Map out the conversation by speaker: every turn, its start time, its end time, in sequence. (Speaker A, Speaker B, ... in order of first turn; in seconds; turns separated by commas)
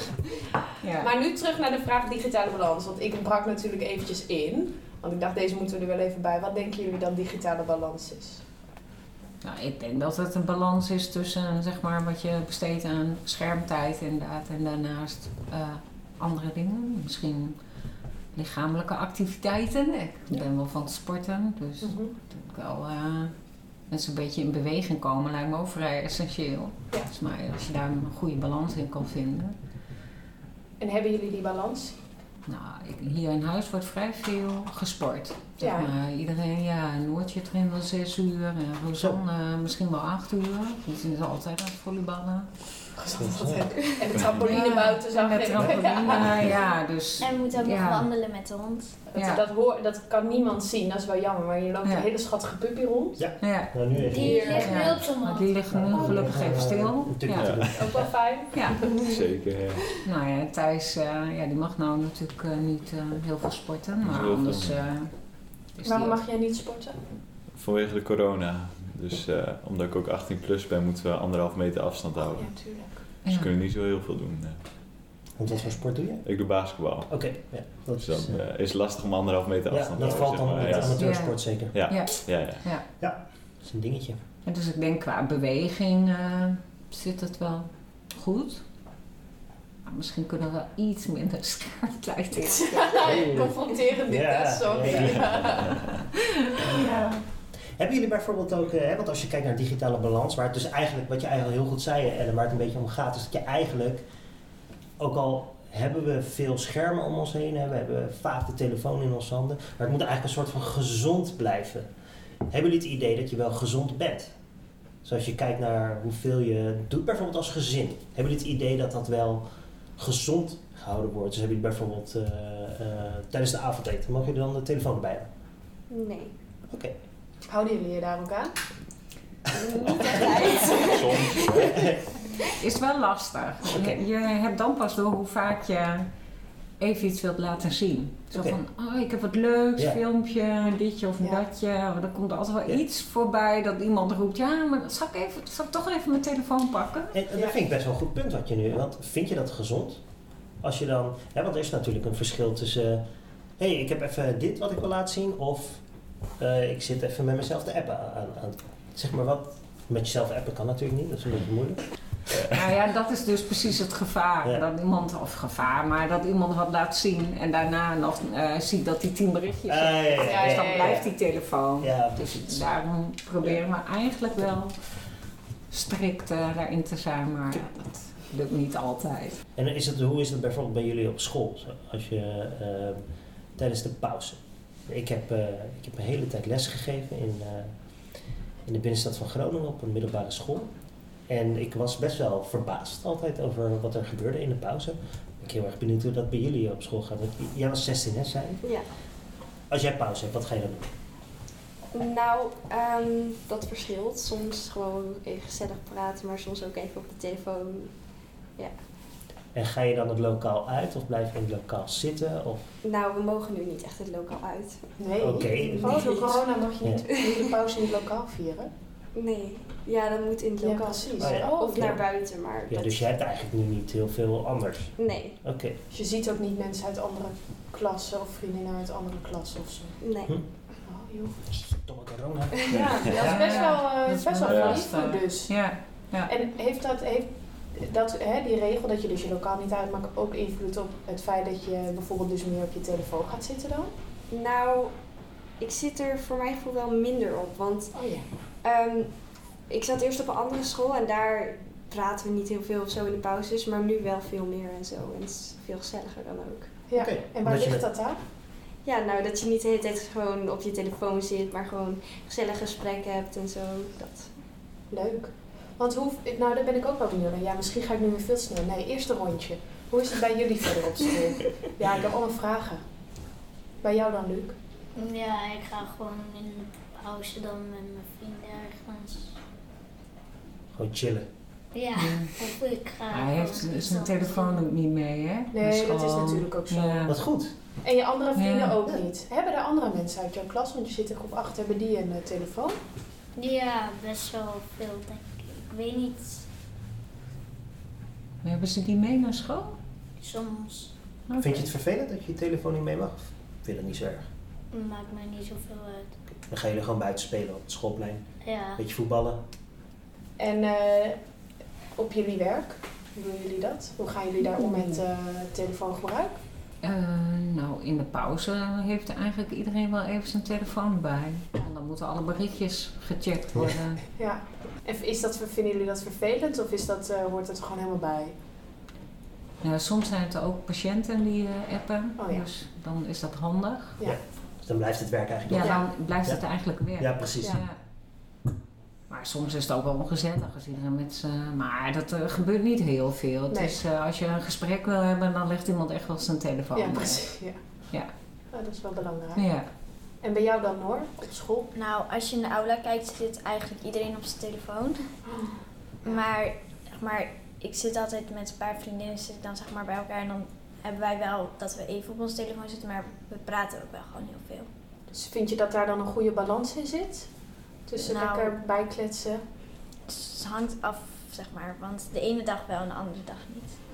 Speaker A: 0.8-1.1, Speaker B: 1.0-8.4, Speaker A: 9.4-17.6, Speaker A: 18.3-23.4, Speaker B: 21.8-22.1, Speaker A: 23.9-29.6, Speaker B: 30.8-32.0, Speaker A: 32.5-42.5, Speaker B: 35.6-35.9, Speaker B: 43.0-46.5, Speaker C: 43.2-43.8, Speaker A: 44.4-48.1, Speaker D: 47.2-49.0, Speaker B: 49.1-53.2, Speaker A: 49.2-49.4, Speaker C: 53.2-54.7, Speaker A: 53.4-57.6, Speaker E: 54.0-56.3, Speaker F: 54.2-54.8, Speaker C: 55.7-58.1, Speaker G: 57.3-57.7, Speaker B: 57.8-59.1, Speaker A: 58.5-58.8, Speaker G: 59.0-59.8, Speaker A: 60.0-65.1, Speaker G: 64.0-64.8, Speaker A: 65.7-66.2, Speaker B: 65.8-67.0, Speaker G: 67.5-72.5, Speaker B: 72.3-73.0, Speaker G: 73.1-74.6, Speaker A: 73.2-73.5, Speaker C: 75.4-76.3, Speaker G: 76.2-77.3, Speaker C: 77.1-78.5, Speaker G: 78.0-81.1, Speaker C: 79.7-81.8, Speaker A: 81.0-82.8, Speaker G: 81.7-82.7, Speaker C: 83.0-84.2, Speaker A: 84.5-88.6, Speaker A: 89.8-92.7, Speaker B: 92.6-95.8, Speaker C: 93.0-93.5, Speaker C: 94.0-95.7, Speaker G: 95.0-95.6, Speaker A: 96.4-97.2, Speaker C: 97.8-104.0, Speaker C: 105.0-111.9, Speaker C: 112.5-114.3, Speaker C: 115.0-119.5, Speaker C: 120.0-125.3, Speaker F: 125.9-126.3, Speaker C: 126.7-127.0, Speaker B: 127.5-128.5, Speaker F: 129.5-131.7, Speaker G: 130.7-131.9, Speaker C: 131.6-132.0, Speaker A: 132.5-136.1, Speaker C: 133.7-134.0, Speaker A: 136.8-147.2, Speaker C: 138.3-138.6, Speaker C: 147.1-150.0, Speaker C: 150.6-153.1, Speaker C: 153.6-155.8, Speaker C: 156.4-161.8, Speaker A: 162.5-174.8, Speaker C: 169.7-171.1, Speaker B: 170.2-171.1, Speaker C: 171.8-172.7, Speaker A: 175.7-179.4, Speaker C: 179.6-183.0, Speaker C: 183.6-187.8, Speaker C: 188.7-190.7, Speaker C: 191.3-198.6, Speaker C: 199.7-200.9, Speaker F: 201.9-207.9, Speaker C: 209.5-212.7, Speaker F: 212.8-214.9, Speaker B: 215.0-218.7, Speaker C: 215.2-217.0, Speaker F: 215.8-216.4, Speaker F: 219.2-223.1, Speaker B: 220.6-222.0, Speaker C: 221.2-222.1, Speaker C: 222.7-225.8, Speaker F: 225.0-225.4, Speaker B: 225.9-230.0, Speaker F: 230.0-230.3, Speaker B: 230.8-231.4, Speaker C: 231.5-233.6, Speaker G: 232.7-233.2, Speaker B: 232.7-235.7, Speaker A: 233.2-236.3, Speaker G: 234.5-234.8, Speaker B: 236.3-243.9, Speaker F: 244.3-245.0, Speaker F: 245.6-248.0, Speaker B: 247.9-248.3, Speaker F: 248.6-256.8, Speaker B: 256.9-258.2, Speaker C: 256.9-257.9, Speaker F: 258.8-264.3, Speaker B: 264.9-272.8, Speaker B: 273.8-274.6, Speaker E: 274.9-279.4, Speaker C: 280.7-281.3, Speaker E: 281.7-284.7, Speaker A: 282.0-282.3, Speaker A: 283.1-287.2, Speaker B: 285.5-287.1, Speaker C: 287.1-287.5, Speaker B: 287.8-292.8, Speaker A: 288.4-288.8, Speaker E: 293.4-296.5, Speaker A: 298.4-299.8, Speaker E: 300.2-300.9, Speaker A: 301.3-301.7, Speaker C: 301.4-304.3, Speaker E: 304.7-306.1, Speaker C: 306.5-309.4, Speaker E: 308.4-308.8, Speaker B: 310.4-311.2, Speaker B: 312.0-316.4, Speaker A: 314.6-315.0, Speaker A: 316.8-324.0, Speaker B: 324.2-328.4, Speaker A: 329.6-334.0, Speaker B: 332.2-332.5, Speaker C: 334.0-336.4, Speaker A: 335.5-337.8, Speaker B: 335.6-335.8, Speaker C: 337.0-337.6, Speaker A: 339.1-347.3, Speaker B: 343.5-343.8, Speaker B: 346.8-347.6, Speaker B: 348.5-349.4, Speaker A: 349.4-349.7, Speaker B: 350.2-351.7, Speaker D: 351.7-355.1, Speaker B: 355.3-355.6, Speaker D: 356.0-364.7, Speaker B: 365.1-367.3, Speaker B: 367.9-369.4, Speaker D: 368.0-368.6, Speaker D: 370.1-373.8